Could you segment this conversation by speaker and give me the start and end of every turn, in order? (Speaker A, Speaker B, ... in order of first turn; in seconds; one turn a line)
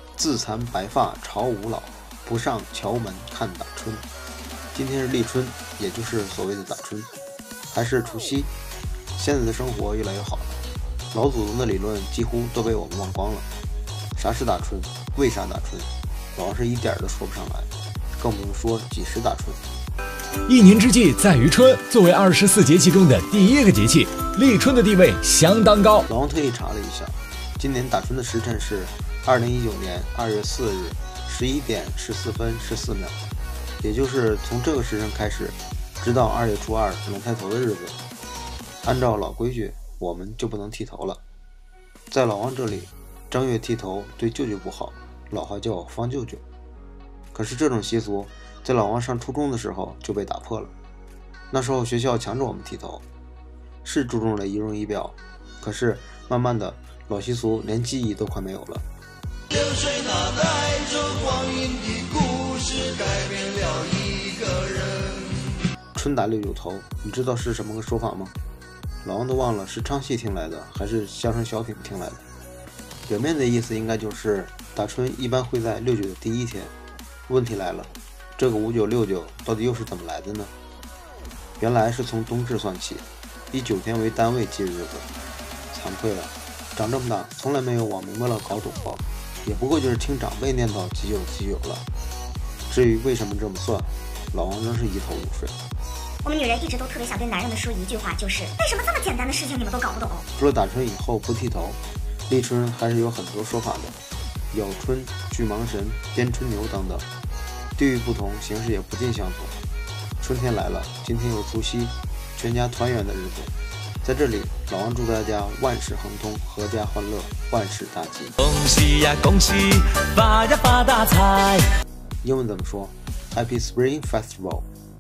Speaker A: 0.2-4.0
Speaker A: 4.7-7.1
Speaker A: 7.7-8.5
Speaker A: 9.2-10.6
Speaker A: 11.1-13.5
Speaker A: 14.2-19.6
Speaker B: 20.5-26.1
Speaker A: 26.1-33.2
Speaker A: 33.8-38.0
Speaker A: 38.8-41.2
Speaker A: 42.1-46.4
Speaker A: 47.3-50.7
Speaker A: 51.5-53.0
Speaker A: 53.8-58.8
Speaker C: 59.5-65.5
Speaker A: 66.0-68.3
Speaker A: 69.0-72.2
Speaker A: 73.1-76.7
Speaker A: 77.3-80.5
Speaker A: 81.6-85.1
Speaker A: 85.7-91.8
Speaker A: 92.7-95.6
Speaker D: 96.2-100.3
Speaker A: 100.3-104.0
Speaker A: 104.5-107.1
Speaker A: 107.8-109.5
Speaker A: 110.2-118.3
Speaker C: 118.4-121.7
Speaker A: 122.2-124.7